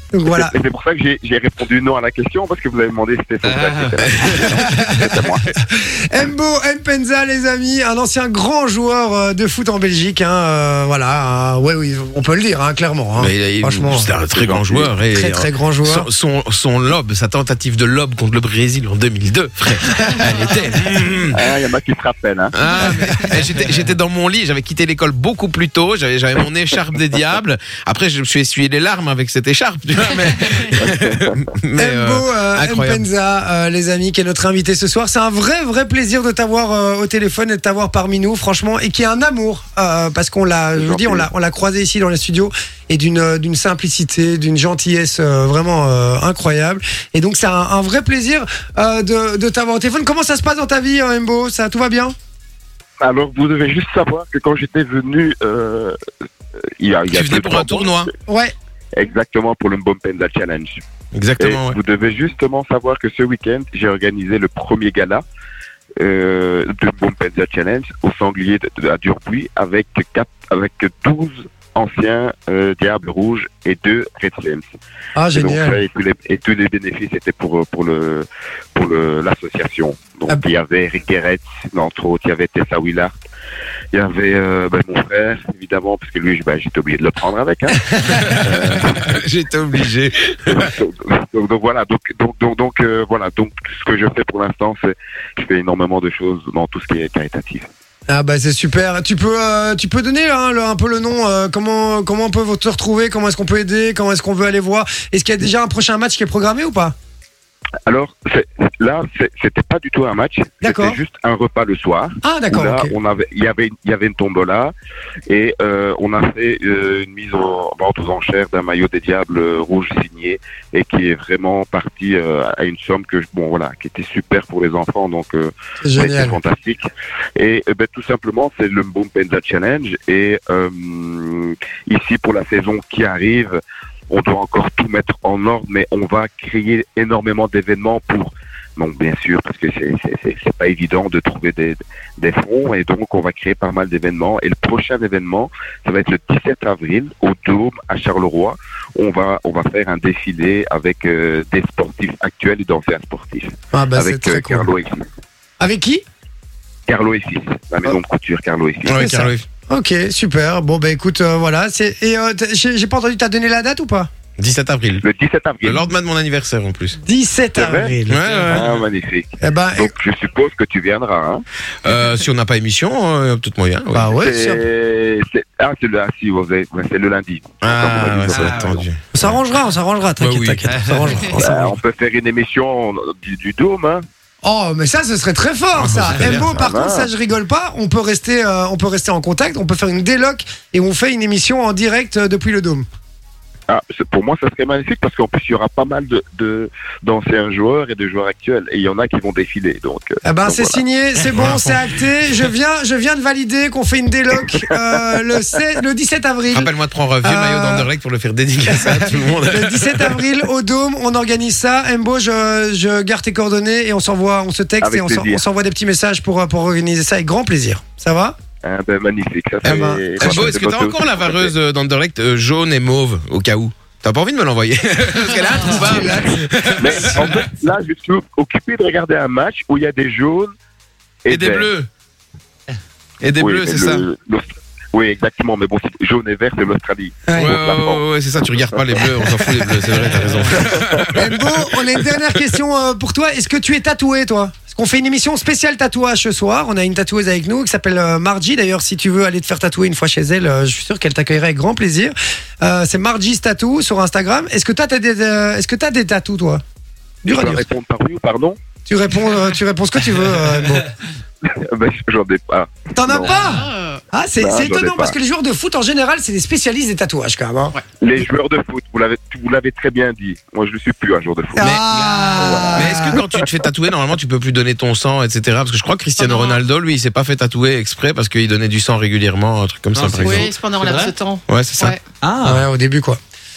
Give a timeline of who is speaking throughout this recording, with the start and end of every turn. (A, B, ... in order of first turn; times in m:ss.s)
0:00.1-0:00.5 A
0:00.3-0:05.5 B
0:03.4-0:04.1 C
0:04.0-0:04.7 D
0:05.7-0:14.1 A
0:13.2-0:21.4 D
0:14.3-0:14.9 B
0:15.1-0:16.1 A
0:21.3-0:22.5 B
0:22.5-0:33.0 D
0:22.8-0:23.2 A
0:30.8-0:31.3 B
0:31.8-0:52.1 A
0:40.8-0:41.3 B
0:53.0-0:55.9 B
0:56.8-0:58.1 B
0:57.1-0:58.1 D
0:58.3-0:58.5 A
0:59.0-1:00.8 B
1:01.1-1:01.8 D
1:01.4-1:05.2 B
1:06.0-1:14.6 B
1:15.2-1:15.8 A
1:15.3-1:23.1 B
1:23.9-1:29.1 B
1:28.0-1:28.4 A
1:28.8-1:30.7 D
1:30.4-1:37.6 B
1:38.1-1:46.9 A
1:47.9-1:54.7 B
1:50.6-1:51.0 A
1:52.2-1:52.9 A
1:55.3-2:35.0 B
2:05.8-2:06.4 A
2:33.7-2:34.7 A
2:35.6-2:36.0 A
2:36.9-2:39.0 B
2:38.8-2:39.4 D
2:38.9-2:44.1 A
2:44.4-2:45.0 D
2:45.0-2:45.9 B
2:45.6-2:47.0 D
2:47.0-2:48.2 A
2:47.6-2:47.9 B
2:48.1-2:48.7 D
2:48.3-2:48.8 C
2:48.5-2:51.4 B
2:49.4-2:49.9 A
2:51.8-2:54.1 D
2:53.9-2:54.6 A
2:54.1-2:58.8 B
2:57.6-2:59.4 D
2:58.3-2:58.8 C
2:59.1-3:01.7 A
3:00.2-3:00.7 D
3:00.7-3:01.4 C
3:01.4-3:04.0 B
3:04.4-3:12.8 A
3:05.7-3:06.7 D
3:06.3-3:07.1 B
3:13.7-3:20.8 B
3:20.2-3:26.7 A
3:26.5-3:30.3 D
3:27.2-3:27.9 A
3:28.7-3:38.4 A
3:34.8-3:35.4 B
3:38.6-3:41.5 B
3:39.6-3:40.5 A
3:39.7-3:47.4 D
3:45.6-3:46.8 A
3:46.8-3:50.5 B
3:51.2-3:51.7 B
3:51.3-3:51.9 D
3:53.2-3:54.0 D
3:53.4-3:58.0 B
3:57.3-3:57.6 A
3:57.3-4:02.1 D
3:59.9-4:00.5 C
4:01.1-4:16.6 A
4:17.2-4:17.6 A
4:17.2-4:18.6 B
4:18.9-4:20.9 A
4:21.5-4:23.5 B
4:22.9-4:27.8 A
4:23.3-4:24.0 E
4:24.4-4:25.1 B
4:28.0-4:31.8 B
4:31.5-4:33.2 A
4:31.9-4:32.8 C
4:32.4-4:33.2 B
4:32.7-4:40.5 D
4:36.2-4:36.6 E
4:39.9-4:41.1 C
4:40.2-4:42.0 E
4:41.5-4:42.0 D
4:42.2-4:42.6 C
4:42.4-4:43.2 A